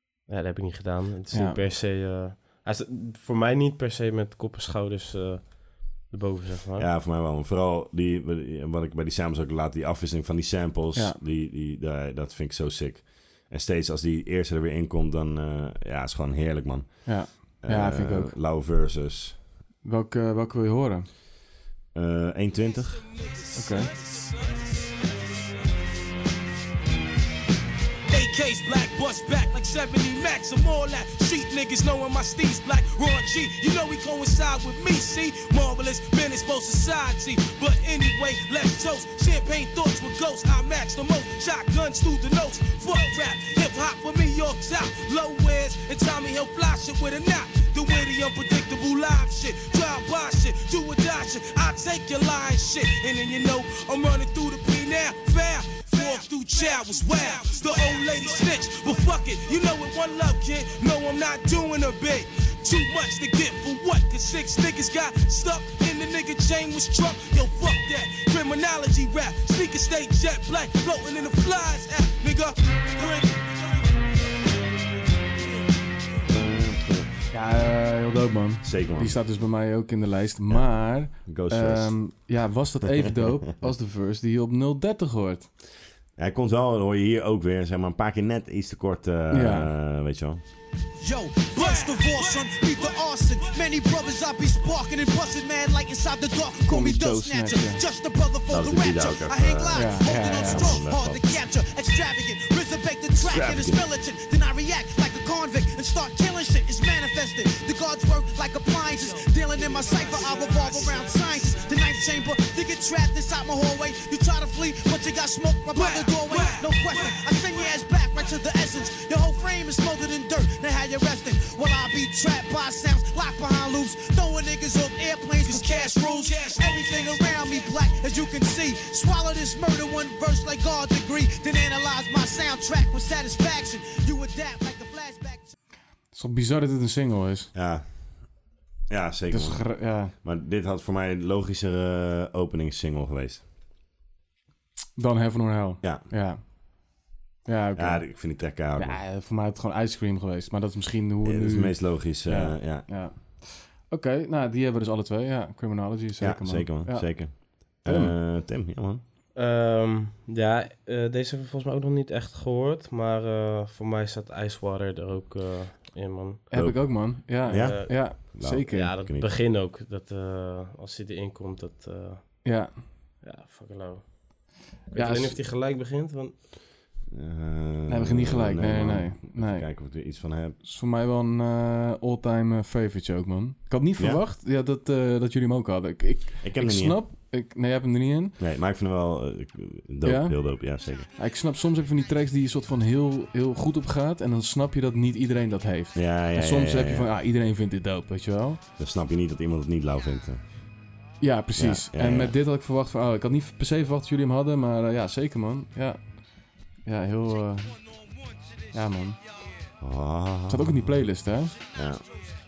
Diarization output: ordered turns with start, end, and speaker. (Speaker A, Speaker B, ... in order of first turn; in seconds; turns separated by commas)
Speaker A: 0.3-6.9, Speaker B: 1.3-1.6, Speaker C: 6.8-19.4, Speaker B: 10.9-11.2, Speaker B: 17.1-18.4, Speaker B: 19.8-21.1, Speaker C: 21.9-23.1, Speaker D: 23.3-25.8, Speaker B: 23.6-23.9, Speaker D: 28.1-74.6, Speaker D: 75.3-76.0, Speaker C: 76.3-77.2, Speaker B: 77.3-85.5, Speaker C: 78.6-79.2, Speaker C: 80.5-82.0, Speaker C: 86.2-90.4, Speaker B: 89.3-89.7, Speaker E: 91.0-135.5, Speaker D: 91.5-93.6, Speaker B: 96.6-97.8, Speaker C: 98.5-101.3, Speaker B: 99.7-100.8, Speaker C: 103.2-103.8, Speaker D: 109.1-111.9, Speaker D: 115.7-117.7, Speaker D: 125.4-127.8, Speaker B: 136.1-137.5, Speaker C: 137.5-143.4, Speaker B: 139.3-140.1, Speaker B: 144.9-158.2, Speaker C: 147.8-149.0, Speaker C: 151.2-152.9, Speaker C: 156.2-159.0, Speaker A: 159.3-166.5, Speaker B: 166.5-169.0, Speaker C: 166.5-169.3, Speaker A: 167.5-172.7, Speaker B: 172.4-172.9, Speaker A: 173.2-176.4, Speaker B: 174.9-175.4, Speaker C: 177.1-180.6, Speaker B: 177.9-179.7, Speaker B: 180.6-188.4, Speaker C: 186.4-187.0, Speaker C: 188.4-191.1, Speaker B: 190.0-198.6, Speaker C: 195.9-197.1, Speaker C: 198.8-200.4, Speaker B: 201.2-207.8, Speaker C: 201.6-202.3, Speaker B: 208.7-209.2, Speaker C: 209.8-211.1, Speaker B: 210.5-211.6, Speaker C: 211.7-212.1